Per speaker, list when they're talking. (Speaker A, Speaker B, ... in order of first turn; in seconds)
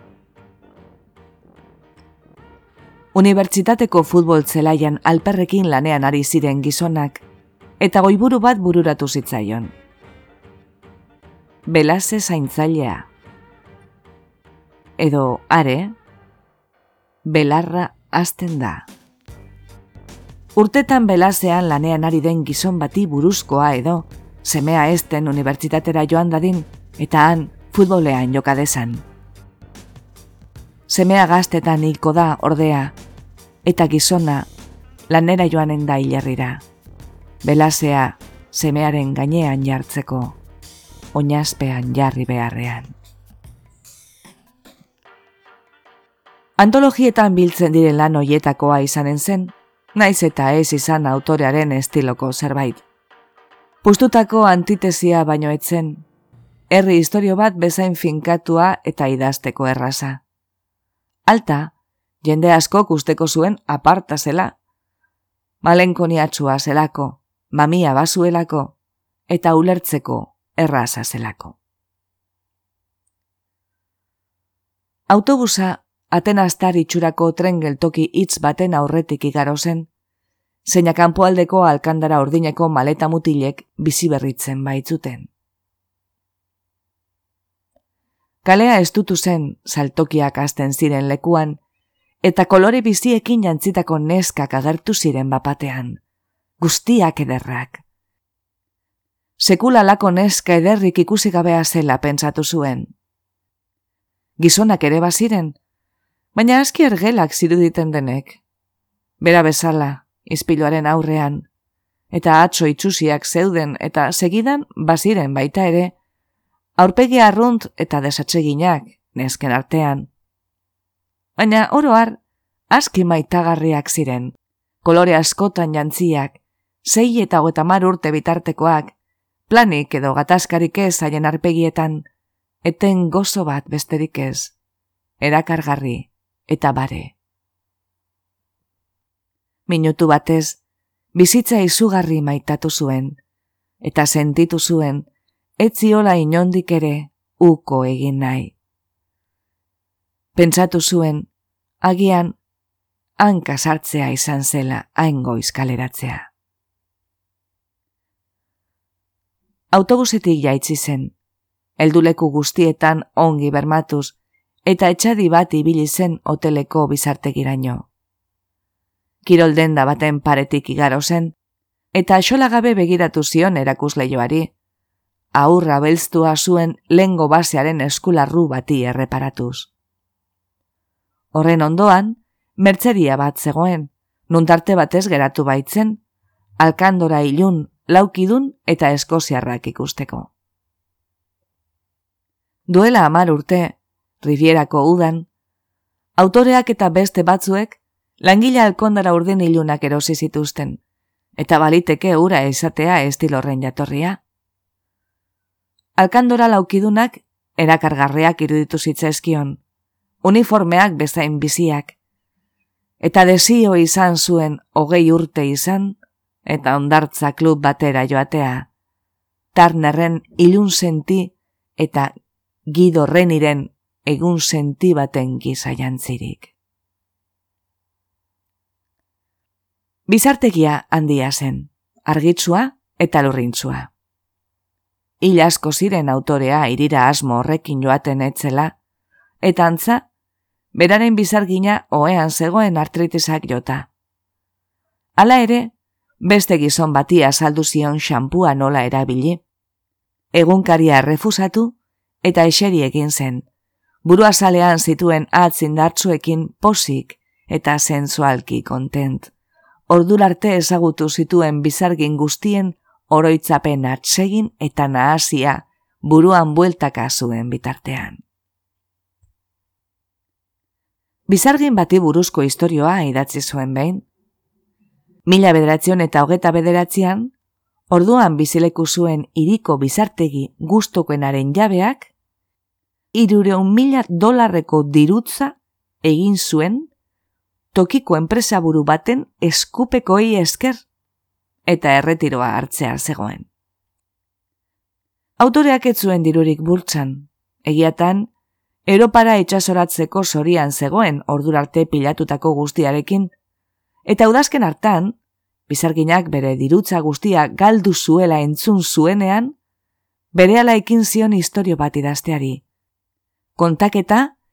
Speaker A: 3.1-7.2, 7.8-9.7, 11.7-13.1, 15.0-15.9, 17.2-18.9, 20.6-29.1, 30.9-33.0, 33.6-34.5, 35.1-36.6, 37.4-40.4, 41.1-42.9, 46.6-52.8, 53.8-56.0, 56.7-60.2, 61.2-64.6, 65.6-68.8, 69.3-71.6, 75.1-79.9, 80.6-85.3, 88.4-91.6, 92.2-96.0, 96.6-97.8, 99.4-102.9, 104.4-105.6, 106.3-108.4, 109.2-111.5, 112.1-115.9, 116.8-120.1, 121.4-122.2, 122.7-128.9, 129.5-132.1, 132.6-134.5, 135.2-137.2, 139.7-140.6, 141.1-143.2, 143.8-145.1, 145.6-148.5, 150.3-151.3, 151.8-152.4, 153.2-156.3, 159.7-161.1, 161.8-167.9, 169.2-171.3, 171.9-174.5, 175.3-179.7, 181.3-186.0, 186.6-190.3, 192.7-195.3, 196.2-200.8, 201.4-204.2, 206.0-209.6, 210.2-211.9, 213.0-218.7, 219.5-222.1, 222.7-226.5, 230.1-233.9, 235.2-238.8, 239.4-240.1, 240.7-243.9, 245.2-249.4, 250.3-253.5, 254.0-259.3, 259.9-268.2, 271.3-274.1, 275.2-277.3, 277.9-282.1, 283.1-286.9, 287.7-290.8, 291.7-293.5, 295.4-298.3, 298.9-303.3, 304.0-305.2, 305.7-309.6, 310.3-312.6, 313.6-314.4